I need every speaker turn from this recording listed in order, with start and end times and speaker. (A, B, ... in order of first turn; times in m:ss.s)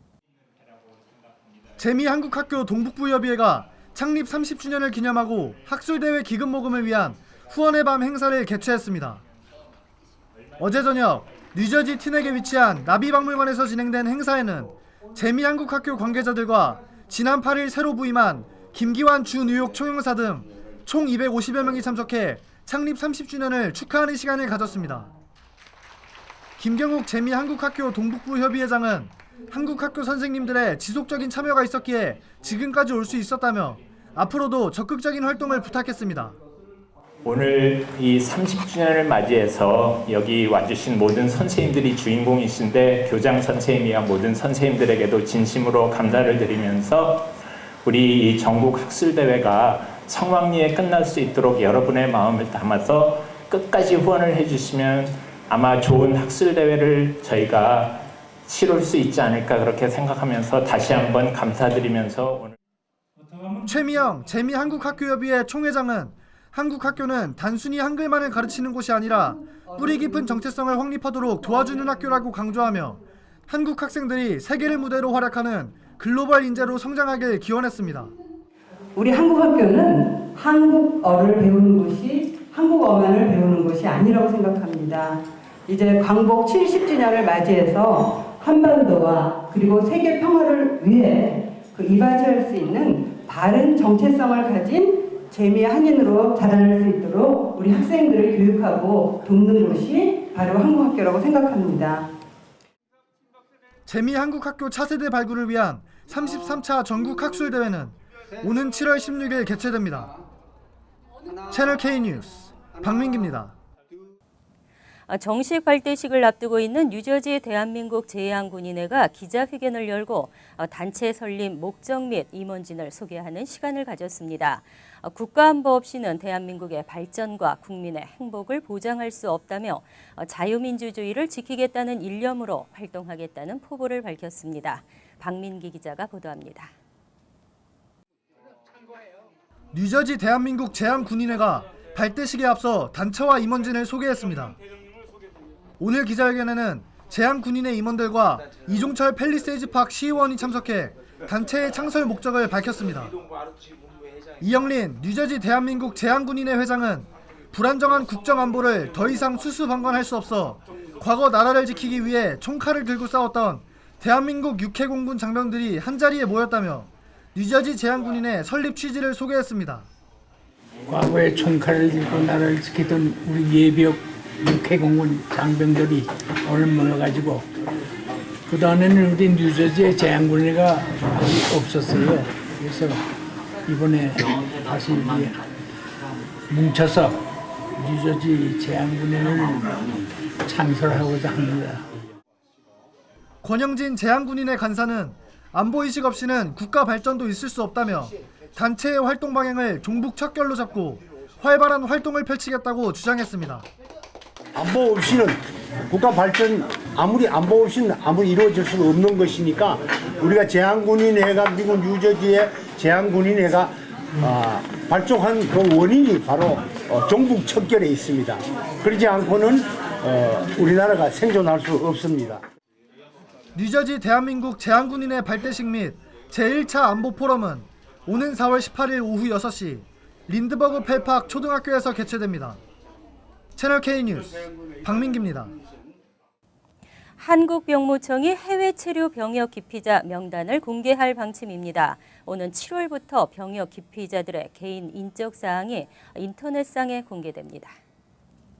0:01.8-0:09.2 A
0:10.6-0:25.1 A
0:26.6-0:36.4 A
0:37.2-1:02.5 B
1:03.6-1:18.1 A
1:18.9-1:42.1 C
1:43.9-1:50.1 A
1:51.5-1:53.5 A
1:55.1-2:16.7 D
2:19.7-2:24.6 A
2:25.8-2:33.1 A
2:34.4-2:49.9 A
2:50.9-2:57.4 E
2:58.5-3:03.0 E
3:03.7-3:05.4 E
3:06.5-3:07.2 E
3:07.8-3:11.8 E
3:13.4-3:23.6 A
3:24.5-3:25.4 F
3:25.9-3:42.4 F
3:43.5-3:52.6 A
3:53.6-3:55.5 A
3:57.2-4:07.7 D